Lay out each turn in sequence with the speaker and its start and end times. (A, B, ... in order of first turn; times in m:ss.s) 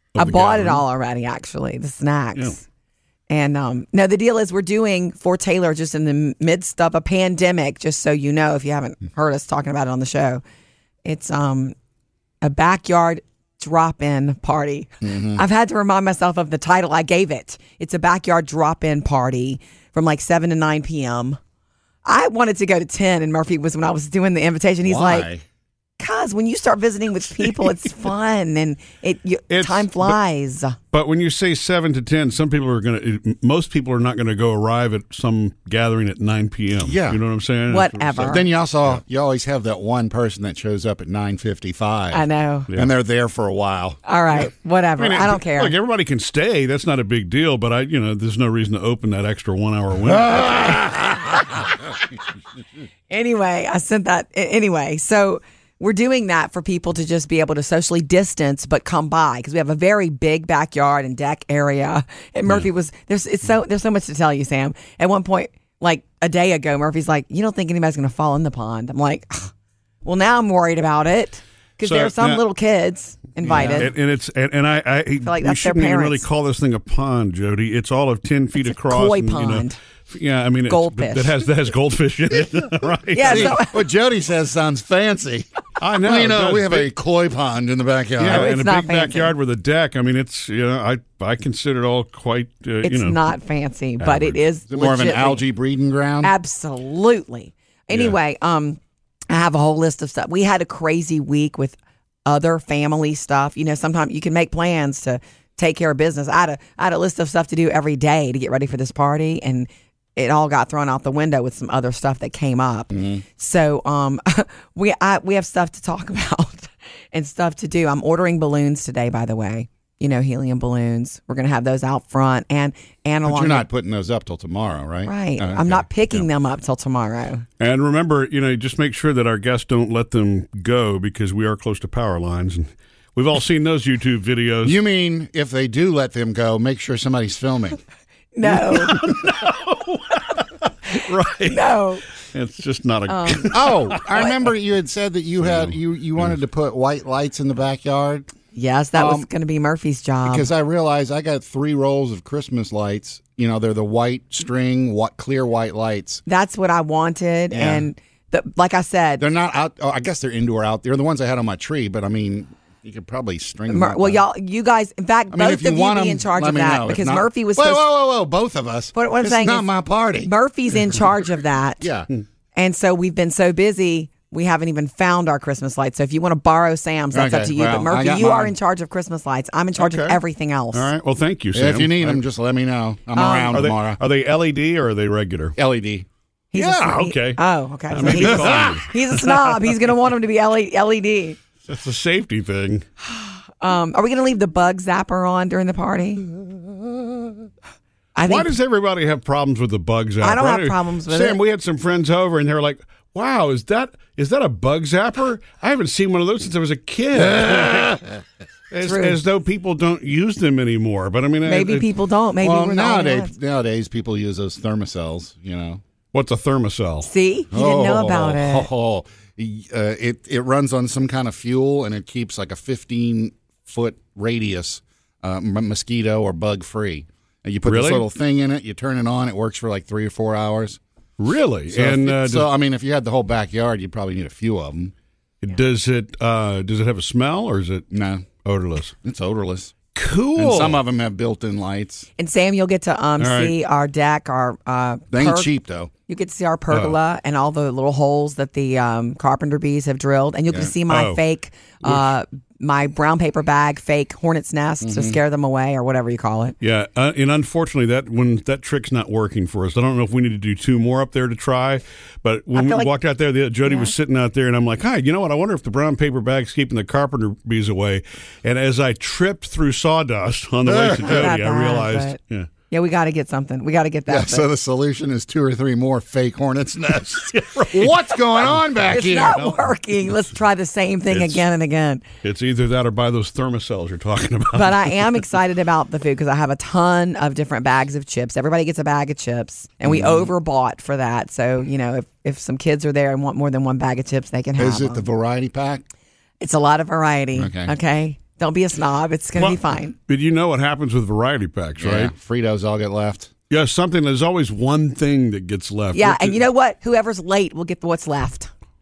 0:00.1-0:00.8 A
0:00.2-0:02.6 B
0:03.3-0:10.4 B
0:11.0-0:11.7 B
0:12.4-0:21.4 B
0:15.0-0:15.4 C
0:22.0-0:25.3 B
0:24.8-0:25.4 C
0:26.0-0:30.8 B
0:29.5-0:30.2 A
0:30.9-0:39.0 A
0:36.8-0:37.2 C
0:37.7-0:38.4 B
0:38.3-0:44.0 C
0:42.1-0:42.7 B
0:44.0-0:45.7 B
0:45.0-0:50.8 A
0:50.2-0:51.2 C
0:53.1-1:09.5 B
1:10.0-1:13.9 B
1:11.8-1:12.4 A
1:13.5-1:23.6 A
1:13.5-1:13.9 C
1:15.2-1:16.2 B
1:18.6-1:19.8 B
1:20.7-1:21.4 B
1:23.1-1:23.8 B
1:23.2-1:25.5 C
1:25.8-1:26.9 A
1:26.0-1:28.5 C
1:28.2-1:33.2 A
1:28.2-1:29.3 B
1:32.8-1:35.4 B
1:34.0-1:34.4 A
1:34.7-1:36.3 C
1:36.2-1:38.8 B
1:39.3-2:03.6 B
1:52.9-1:53.2 C
2:03.2-2:06.2 C
2:05.0-2:07.4 B
2:07.6-2:14.8 A
2:14.6-2:17.8 C
2:18.3-2:19.0 B
2:18.4-2:24.0 A
2:21.5-2:22.0 B
2:23.1-2:24.3 B
2:23.5-2:28.3 C
2:25.4-2:26.3 A
2:28.5-2:30.5 B
2:28.9-2:29.3 C
2:30.2-2:36.2 C
2:36.3-2:39.2 B
2:37.5-2:37.9 C
2:39.2-2:44.2 C
2:43.7-2:47.9 B
2:45.3-2:50.3 C
2:48.9-2:51.9 B
2:51.8-2:52.1 C
2:52.5-3:00.9 B
2:57.1-2:58.5 C
2:59.8-3:00.2 A
3:00.7-3:02.2 A
3:01.5-3:04.0 C
3:03.1-3:03.6 B
3:03.5-3:05.5 A
3:05.6-3:06.0 C
3:06.5-3:11.4 B
3:06.5-3:07.4 A
3:07.9-3:09.0 A
3:08.0-3:08.8 C
3:11.6-3:12.8 A
3:13.1-3:16.2 B
3:18.1-3:18.5 B
3:18.2-3:28.0 A
3:20.2-3:21.4 B
3:28.7-3:31.9 A
3:28.8-3:29.2 B
3:31.4-3:33.3 B
3:32.4-3:35.8 C
3:36.1-3:37.1 A
3:37.0-3:38.7 B
3:37.5-3:50.8 C
3:47.6-3:48.0 A
3:51.2-3:52.5 A
3:51.7-3:54.9 C
3:55.4-3:57.8 A
3:57.9-3:58.2 C
3:58.4-3:58.9 A
3:59.0-3:59.7 C
3:59.9-4:00.8 A
4:00.4-4:02.1 C
4:02.2-4:05.5 B
4:03.2-4:03.5 A
4:05.1-4:05.9 C
4:06.1-4:16.6 B
4:06.7-4:07.0 A
4:10.9-4:11.2 A
4:14.8-4:15.2 C
4:16.6-4:32.5 A
4:22.5-4:22.9 B
4:23.6-4:23.9 B
4:30.6-4:31.3 C
4:31.0-4:32.2 B
4:32.7-4:34.5 B
4:34.1-4:39.5 C
4:37.3-4:39.8 A
4:38.9-4:42.0 B
4:41.1-4:41.4 A
4:42.2-4:45.1 A
4:44.5-4:55.0 B
4:49.8-4:50.3 C
4:54.6-4:55.8 C
4:56.4-5:00.0 B
4:57.3-4:57.7 C
4:59.4-5:02.1 A
5:01.8-5:03.3 C
5:03.5-5:06.4 A
5:05.9-5:08.5 B